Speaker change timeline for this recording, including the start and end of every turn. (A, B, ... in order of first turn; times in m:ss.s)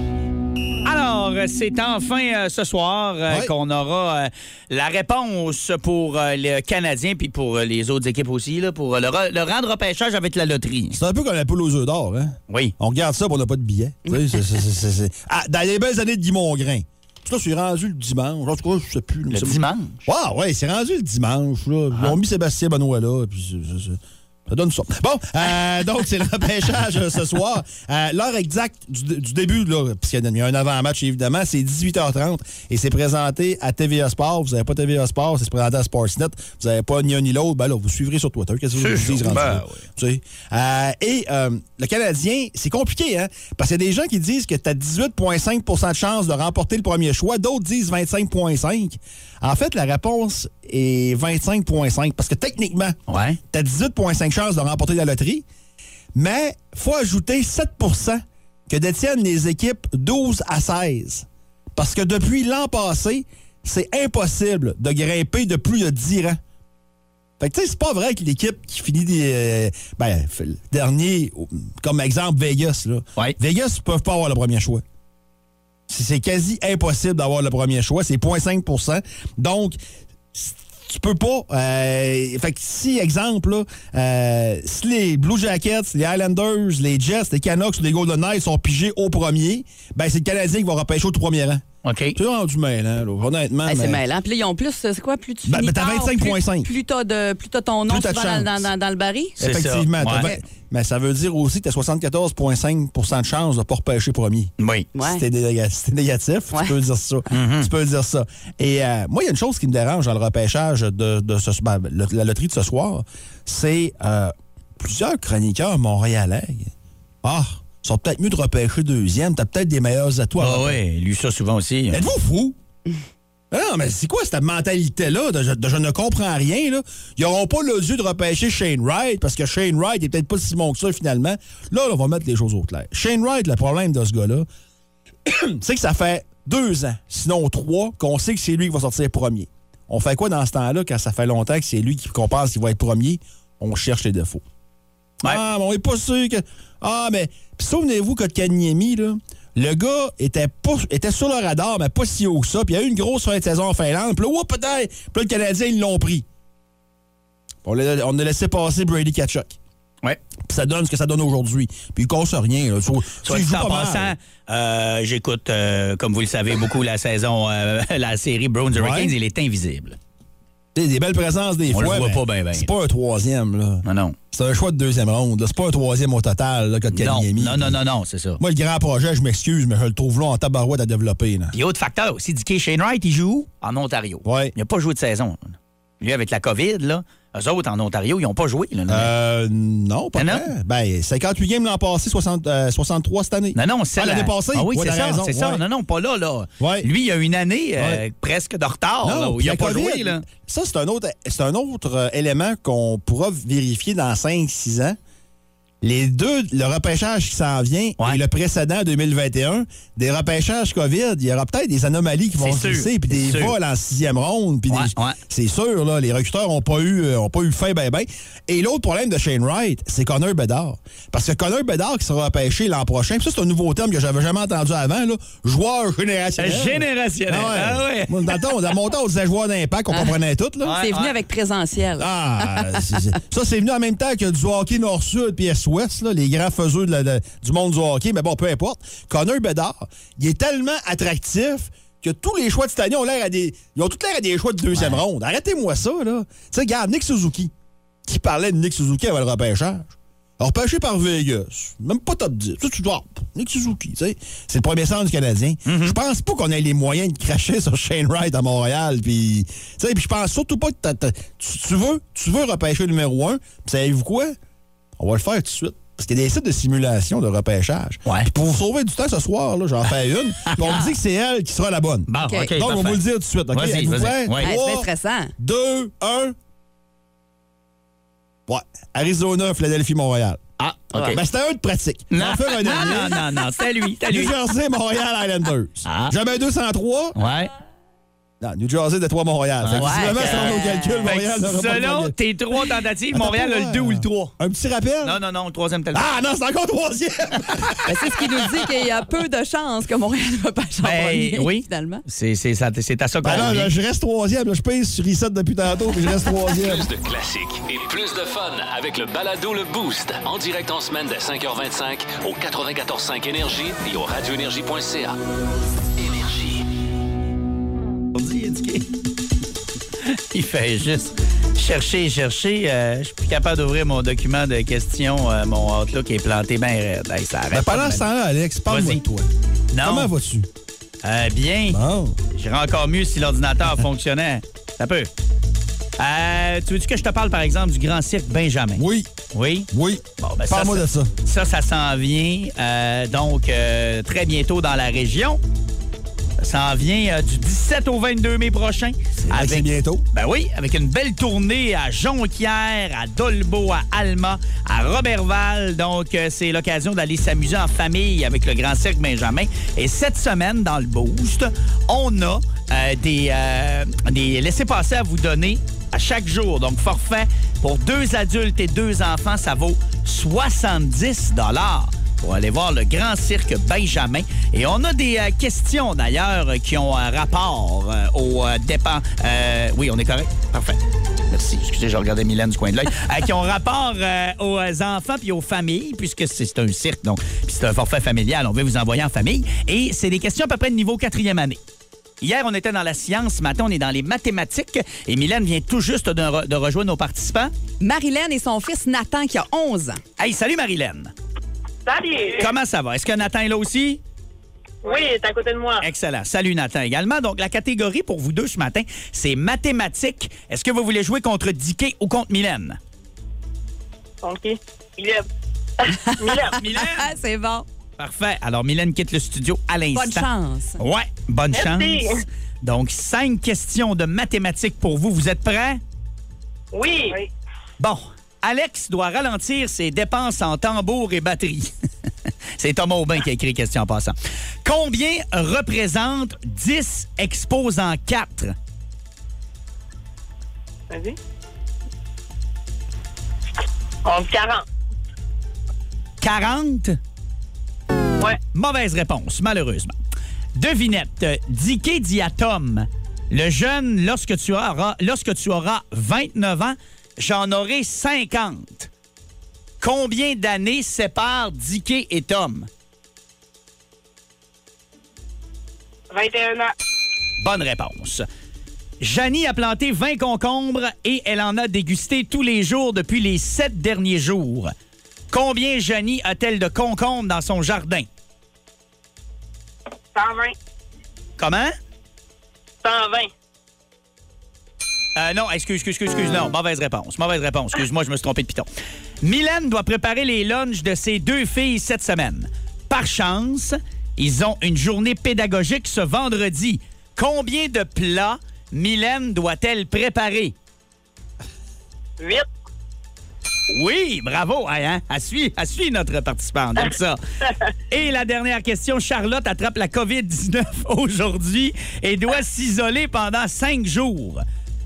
0:00.8-0:11.0 A
0:03.3-0:03.5 B
0:10.9-0:53.0 B
0:19.3-0:20.0 A
0:21.9-0:22.2 A
0:38.8-0:39.8 A
0:53.1-0:53.4 A
0:53.5-0:55.4 B
0:56.1-1:06.4 B
1:07.4-1:14.8 B
1:15.9-1:19.8 B
1:20.3-1:31.6 B
1:31.8-1:32.2 A
1:32.1-1:34.0 B
1:33.6-1:39.4 C
1:35.4-1:36.7 B
1:37.9-1:38.7 B
1:39.4-1:40.3 A
1:39.4-1:56.7 B
1:44.6-1:44.9 A
1:44.9-1:45.2 C
1:47.3-1:47.7 A
1:57.2-2:00.8 B
2:00.4-2:02.0 A
2:01.9-2:02.6 B
2:03.5-2:14.5 B
2:15.2-2:24.4 B
2:25.2-2:36.2 B
2:37.6-2:39.6 B
2:40.5-2:44.1 B
2:43.2-2:50.0 A
2:48.7-2:49.1 B
2:50.7-2:57.8 B
2:51.7-2:52.7 A
2:53.8-2:54.2 A
2:56.9-2:58.4 A
2:58.4-3:01.5 B
3:01.5-3:09.1 A
3:04.2-3:04.5 B
3:08.9-3:15.6 B
3:10.2-3:10.5 A
3:13.5-3:20.2 A
3:16.6-3:16.9 B
3:19.0-3:25.0 B
3:25.8-3:50.8 B
3:32.4-3:33.6 A
3:34.7-3:35.2 A
3:46.4-3:48.4 A
3:50.6-3:51.1 A
3:50.7-3:53.0 C
3:52.0-4:07.5 B
4:04.7-4:05.0 A
4:08.0-4:24.4 B
4:15.6-4:16.0 A
4:25.0-4:36.3 B
4:30.4-4:30.8 A
4:32.1-4:33.0 A
4:32.2-4:32.5 C
4:33.5-4:34.5 A
4:34.4-4:35.3 C
4:38.5-4:40.4 B
4:40.6-4:41.2 A
4:40.9-4:43.2 B
4:42.1-4:44.3 A
4:44.1-4:47.2 B
4:45.8-4:46.1 A
4:47.2-4:47.5 A
4:48.4-4:52.1 B
4:49.6-4:54.3 A
4:49.8-4:51.1 C
4:53.1-4:55.2 B
4:55.0-4:56.1 A
4:55.9-4:58.2 B
4:57.8-5:02.0 C
5:00.8-5:03.7 A
5:03.2-5:06.9 B
5:06.5-5:15.2 D
5:16.0-5:16.6 D
5:18.1-5:18.9 A
5:20.0-5:28.0 A
5:27.5-5:29.3 B
5:28.7-5:29.0 A
5:29.7-5:30.1 A
5:29.8-5:30.5 B
5:31.0-5:31.8 A
5:31.7-5:32.2 B
5:32.3-5:35.1 A
5:36.0-5:39.7 A
5:38.8-5:39.1 B
5:39.7-5:41.1 B
5:40.2-5:45.4 A
5:46.4-6:20.8 A
5:49.2-5:50.0 B
6:21.3-6:31.6 A
6:32.2-6:37.5 A
6:37.8-6:40.0 C
6:40.2-6:41.1 A
6:41.8-6:42.5 E
6:42.4-6:44.0 A
6:44.8-6:45.8 E
6:45.8-6:52.8 A
6:54.2-6:55.2 E
6:55.8-6:56.6 E
6:56.0-6:57.6 C
6:56.5-6:57.1 A
6:58.0-7:00.2 A
6:59.9-7:00.8 C
7:00.8-7:05.8 A
7:01.5-7:02.2 E
7:06.7-7:07.3 E
7:07.8-7:11.7 A
7:12.6-7:18.5 A
7:20.9-7:21.2 E
7:24.0-7:24.6 E
7:26.2-7:27.0 A
7:28.5-7:29.9 A
7:30.5-7:38.9 A
7:39.8-7:42.7 A
7:46.1-7:46.7 E
7:47.4-7:48.2 A
7:49.0-7:54.7 A
7:55.3-7:58.1 A
8:00.1-8:00.5 E
8:01.4-8:01.7 A
8:02.8-8:03.3 E
8:05.2-8:08.7 A
8:09.2-8:20.5 A
8:22.2-8:22.4 E
8:23.7-8:27.2 A
8:27.9-8:34.4 A